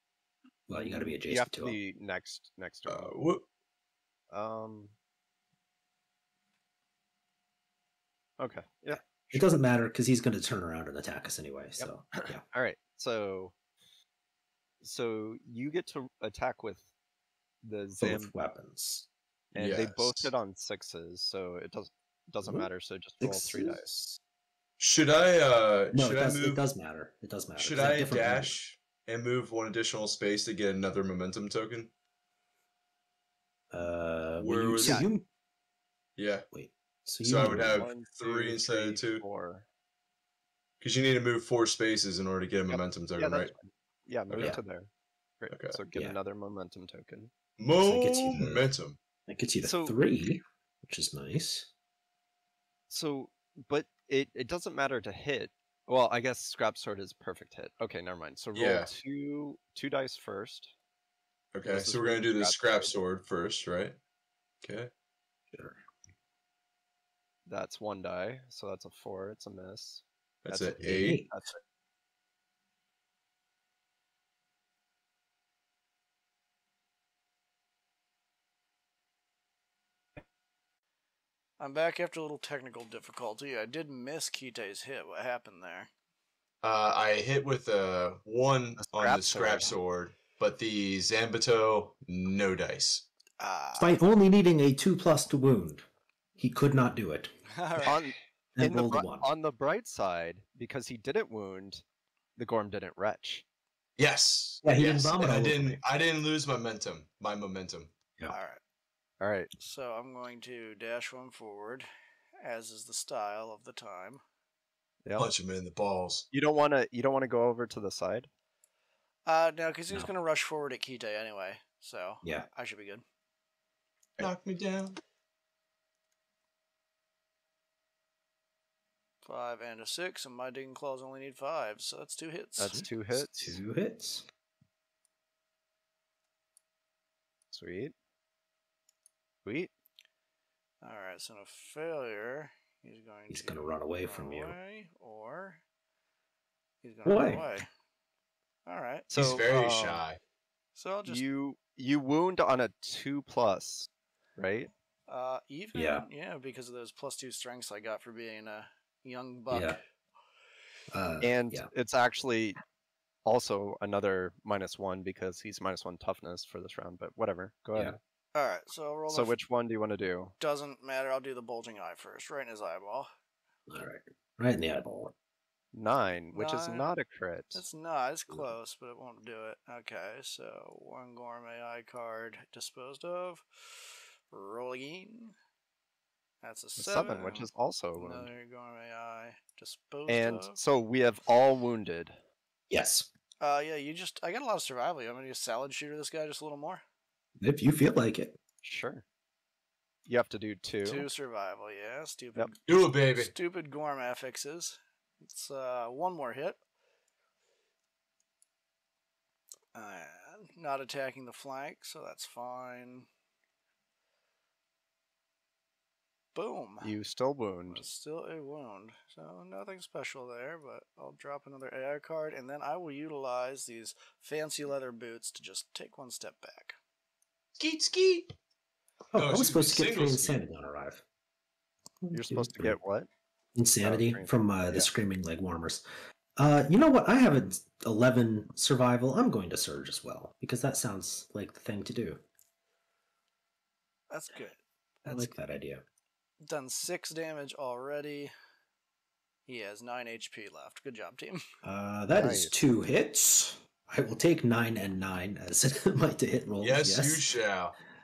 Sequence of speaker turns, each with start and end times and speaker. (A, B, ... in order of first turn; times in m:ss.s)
0:00.7-0:01.8 A
0:00.8-0:03.2 B
0:02.9-0:03.4 C
0:04.3-0:04.9 B
0:08.4-0:09.4 B
0:08.9-0:12.4 A
0:11.8-0:13.6 B
0:14.8-0:16.9 B
0:17.6-0:18.3 B
0:18.0-0:19.1 A
0:19.5-0:24.0 B
0:19.6-0:20.3 C
0:23.2-0:24.2 A
0:24.8-0:26.6 C
0:25.9-0:28.6 A
0:27.6-0:31.9 C
0:33.7-0:35.3 A
0:34.4-0:35.1 C
0:34.8-0:35.1 B
0:36.2-0:36.5 C
0:36.5-0:37.9 A
0:37.2-0:39.2 C
0:37.4-0:39.7 B
0:40.8-0:43.5 C
0:42.7-0:47.3 B
0:44.3-0:44.6 C
0:45.5-0:45.8 C
0:47.6-0:49.0 C
0:47.8-0:48.7 A
0:49.3-0:51.7 A
0:49.6-0:50.0 B
0:52.9-1:00.7 B
0:58.5-0:58.9 C
1:01.5-1:04.0 C
1:01.7-1:03.0 B
1:04.6-1:04.9 C
1:05.5-1:05.8 A
1:07.5-1:11.6 B
1:10.4-1:11.2 C
1:10.8-1:11.3 A
1:21.6-1:25.9 D
1:26.6-1:33.1 C
1:28.8-1:29.8 B
1:33.4-1:34.0 D
1:33.8-1:35.9 A
1:36.4-1:37.3 A
1:37.5-1:38.1 D
1:37.8-1:41.8 B
1:38.6-1:39.3 A
1:42.4-1:43.4 B
1:44.0-1:47.9 C
1:44.6-1:45.8 A
1:48.3-1:48.6 D
1:49.2-1:49.5 B
1:49.6-1:51.9 D
1:52.4-1:54.2 D
1:55.0-1:55.3 B
1:55.2-1:56.3 C
1:56.3-1:58.3 B
1:59.3-2:03.0 D
2:04.2-2:05.0 C
2:09.2-2:12.8 D
2:12.6-2:13.6 B
2:12.6-2:14.3 A
2:17.5-2:17.9 B
2:19.4-2:19.7 B
2:20.8-2:25.6 D
2:23.3-2:24.6 A
2:26.8-2:27.7 D
2:27.0-2:27.5 A
2:28.7-2:29.1 D
2:29.1-2:30.0 B
2:29.2-2:30.2 C
2:30.8-2:31.2 D
2:31.1-2:34.7 B
2:35.1-2:39.8 D
2:35.8-2:36.1 A
2:39.5-2:39.8 A
2:40.9-2:41.7 A
2:41.2-2:42.6 B
2:43.2-2:48.0 B
2:48.4-2:49.4 D
2:49.1-2:50.4 B
2:50.4-2:53.1 D
2:53.7-2:55.1 A
2:55.7-2:57.6 B
2:56.3-2:56.9 D
2:57.6-3:05.4 D
3:06.4-3:10.6 D
3:06.8-3:08.3 B
3:10.1-3:12.2 B
3:12.7-3:13.1 A
3:13.4-3:16.8 D
3:17.4-3:18.4 A
3:18.6-3:19.0 B
3:20.1-3:21.1 B
3:20.8-3:26.6 D
3:22.7-3:23.3 C
3:29.7-3:33.1 D
3:36.4-3:36.9 D
3:36.8-3:37.8 B
3:37.7-3:46.8 D
3:47.6-3:48.3 C
3:49.1-3:51.0 A
3:49.2-3:50.4 C
3:52.0-3:52.8 A
3:52.1-3:53.1 B
3:53.6-3:55.9 A
3:53.8-3:54.9 B
3:56.4-4:02.2 A
4:04.1-4:05.3 D
4:05.0-4:05.8 A
4:06.4-4:08.3 D
4:09.5-4:11.4 D
4:11.6-4:17.2 A
4:12.2-4:12.5 B
4:16.6-4:17.8 C